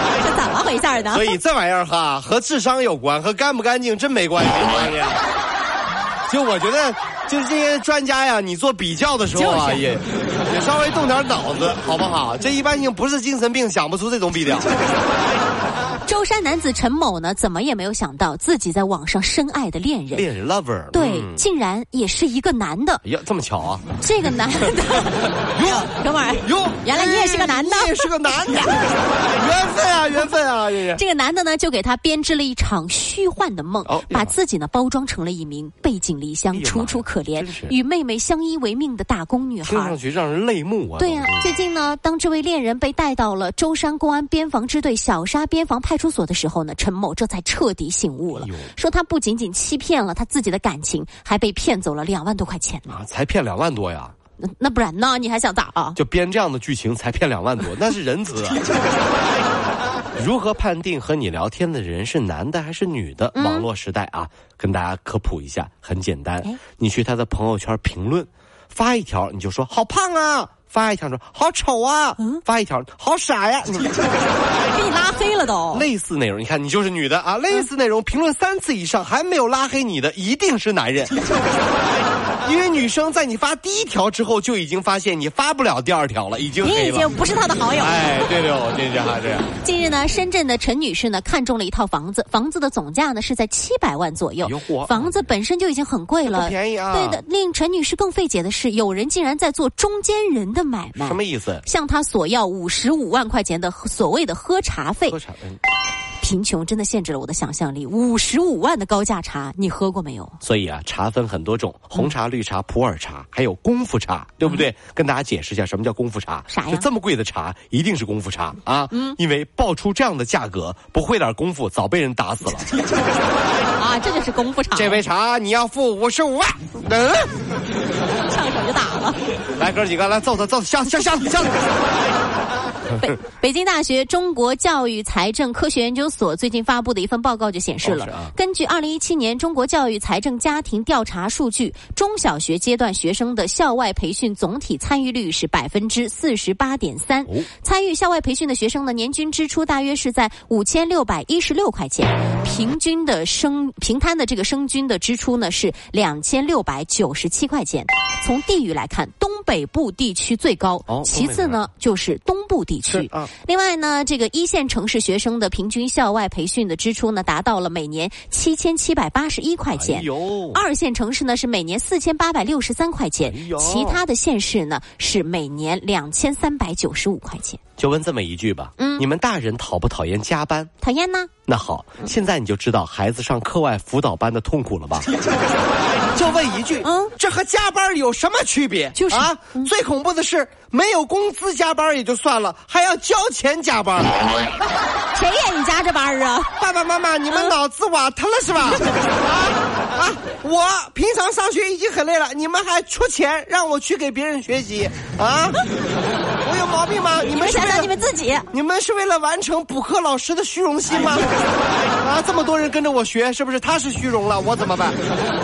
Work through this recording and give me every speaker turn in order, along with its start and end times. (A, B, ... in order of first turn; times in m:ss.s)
0:00.1-0:01.4 A
0:01.1-0:05.2 B
0:06.3-0:14.7 B
0:09.3-0:09.9 A
0:16.0-0:20.3 A
0:20.1-0:21.4 B
0:20.9-0:23.0 A
0:23.0-0:23.8 B
0:24.0-0:28.6 A
0:25.5-0:25.9 B
0:26.4-0:31.0 B
0:30.8-0:40.0 A
0:33.8-0:34.3 B
0:36.5-0:37.7 B
0:39.6-0:41.5 B
0:41.0-0:53.0 A
0:48.3-0:48.7 B
0:52.9-0:54.1 B
0:54.4-0:56.0 A
0:56.0-0:58.6 B
1:00.2-1:13.9 B
1:03.3-1:03.7 A
1:14.7-1:15.9 A
1:15.7-1:21.1 B
1:22.4-1:27.1 B
1:26.6-1:28.0 A
1:27.8-1:29.5 B
1:29.6-1:45.2 A
1:34.4-1:35.3 B
1:36.2-1:37.2 B
1:40.9-1:41.6 B
1:45.1-1:45.6 B
1:46.2-1:50.4 A
1:50.4-2:02.7 B
1:56.5-1:56.9 A
1:58.9-1:59.2 A
2:03.8-2:05.0 A
2:04.7-2:07.3 B
2:08.3-2:09.2 A
2:09.6-2:11.6 B
2:12.9-2:57.6 A
2:17.8-2:18.3 B
2:40.9-2:41.7 B
2:42.8-2:43.3 B
2:49.7-2:50.6 B
2:53.2-2:54.0 B
2:57.8-3:00.7 B
2:58.8-2:59.0 A
3:00.8-3:01.3 A
3:01.5-3:05.1 B
3:06.1-3:14.2 B
3:06.8-3:07.1 A
3:08.9-3:09.7 A
3:15.1-3:16.5 A
3:16.6-3:25.6 B
3:18.8-3:19.0 A
3:26.4-3:27.9 B
3:27.3-3:28.5 A
3:28.5-3:31.3 B
3:32.0-3:35.0 B